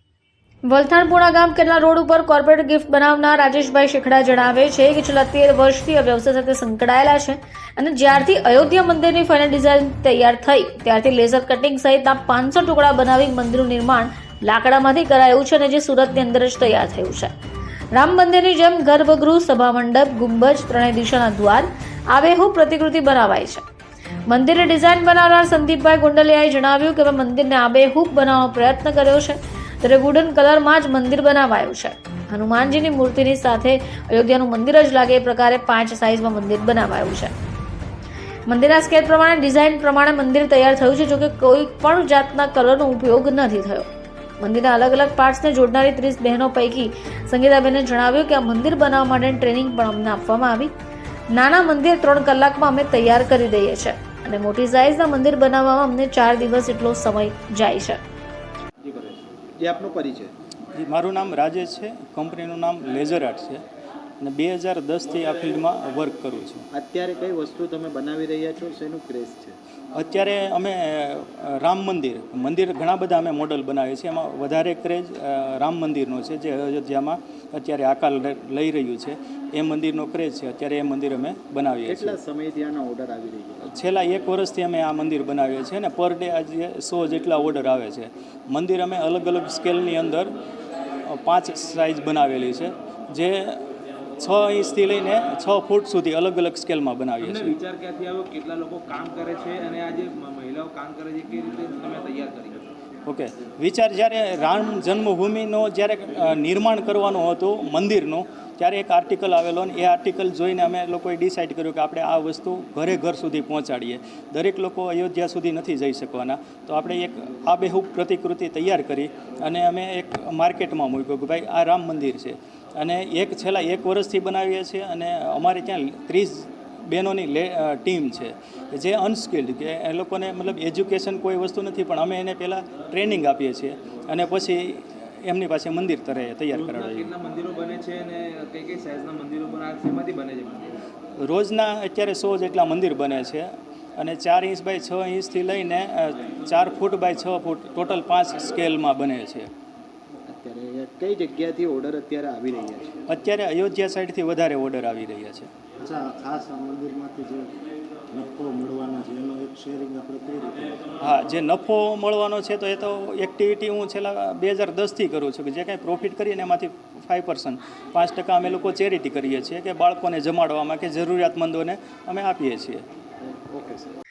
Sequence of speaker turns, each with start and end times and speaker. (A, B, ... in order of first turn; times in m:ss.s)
0:00.7-0:17.3 A
0:17.9-0:23.6 A
0:24.3-0:37.3 A
0:38.5-0:50.7 A
0:51.3-0:58.0 A
0:58.8-1:00.3 B
1:00.7-1:03.6 C
1:04.2-1:06.6 C
1:06.7-1:09.6 B
1:09.9-1:22.2 C
1:21.8-1:23.6 B
1:23.6-1:30.3 C
1:31.1-1:33.6 C
1:34.2-1:37.6 C
1:37.2-1:42.7 D
1:43.0-2:17.1 C
2:16.5-2:20.8 D
2:21.2-2:29.5 C
2:30.3-2:32.9 B
2:33.1-2:35.5 C
2:35.8-2:37.5 E
2:38.1-2:40.8 E
2:41.0-2:52.8 C
2:53.2-2:54.0 B